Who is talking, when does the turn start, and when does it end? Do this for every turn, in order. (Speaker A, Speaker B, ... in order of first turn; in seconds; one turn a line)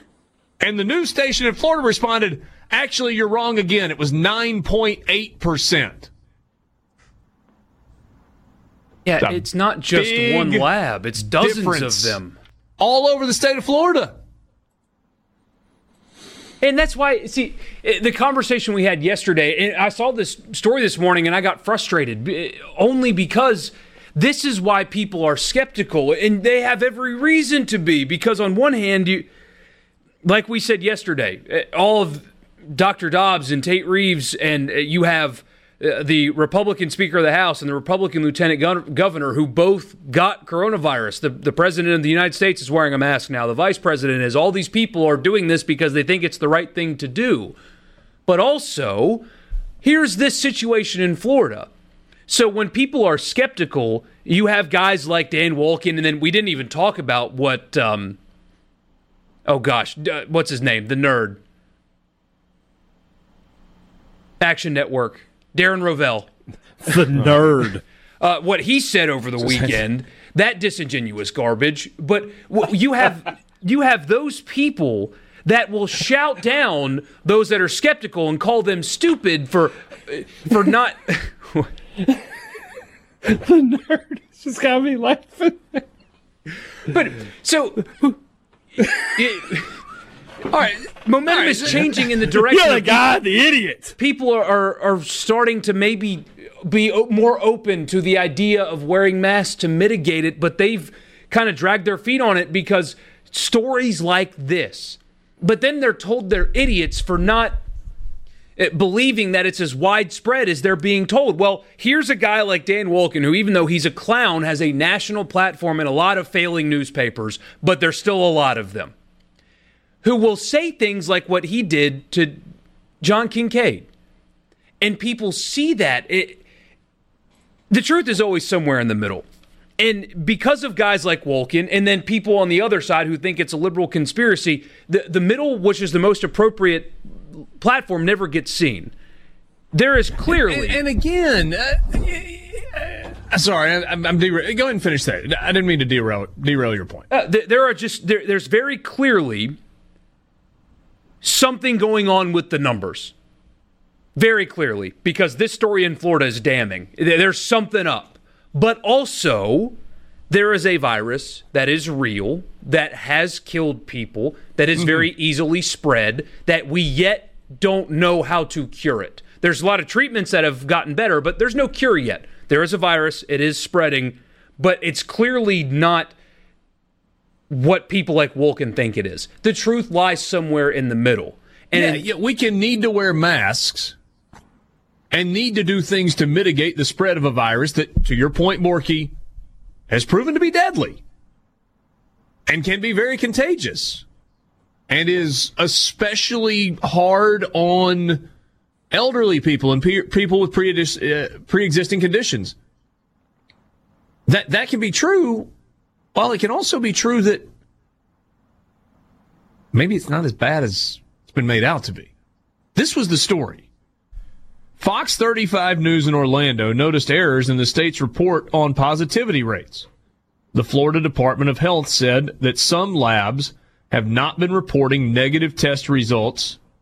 Speaker A: 0.6-6.1
Speaker B: 9.1-12.4
Speaker A: 9.2-12.2
Speaker A: 12.8-14.2
Speaker B: 16.6-29.3
Speaker B: 30.2-47.5
Speaker B: 48.3-49.3
Speaker B: 49.8-51.7
Speaker B: 52.3-58.2
Speaker B: 59.5-61.4
Speaker B: 64.4-66.3
Speaker C: 66.8-67.8
Speaker B: 68.2-81.7
Speaker C: 83.2-85.8
Speaker B: 86.9-87.9
Speaker B: 89.1-89.7
Speaker A: 90.5-91.9
Speaker B: 91.0-93.0
Speaker C: 92.3-94.0
Speaker B: 94.0-107.6
Speaker B: 108.6-118.9
Speaker B: 120.0-122.4
Speaker B: 123.0-123.9
Speaker B: 124.8-126.4
Speaker B: 127.7-129.3
Speaker B: 129.8-137.0
Speaker B: 137.6-138.9
Speaker B: 139.7-140.8
Speaker A: 140.3-147.1
Speaker B: 147.1-149.6
Speaker B: 151.2-153.1
Speaker B: 154.2-159.8
Speaker B: 160.3-176.2
Speaker A: 164.8-165.1
Speaker B: 177.5-182.1
Speaker A: 181.7-183.9
Speaker A: 185.1-189.1
Speaker A: 189.9-191.0
Speaker A: 192.5-194.1
Speaker A: 194.9-198.3
Speaker A: 198.9-202.6
Speaker A: 204.3-205.5
Speaker A: 206.2-207.5
Speaker A: 209.7-212.1
Speaker A: 212.8-213.7
Speaker A: 214.8-219.9
Speaker A: 220.5-226.6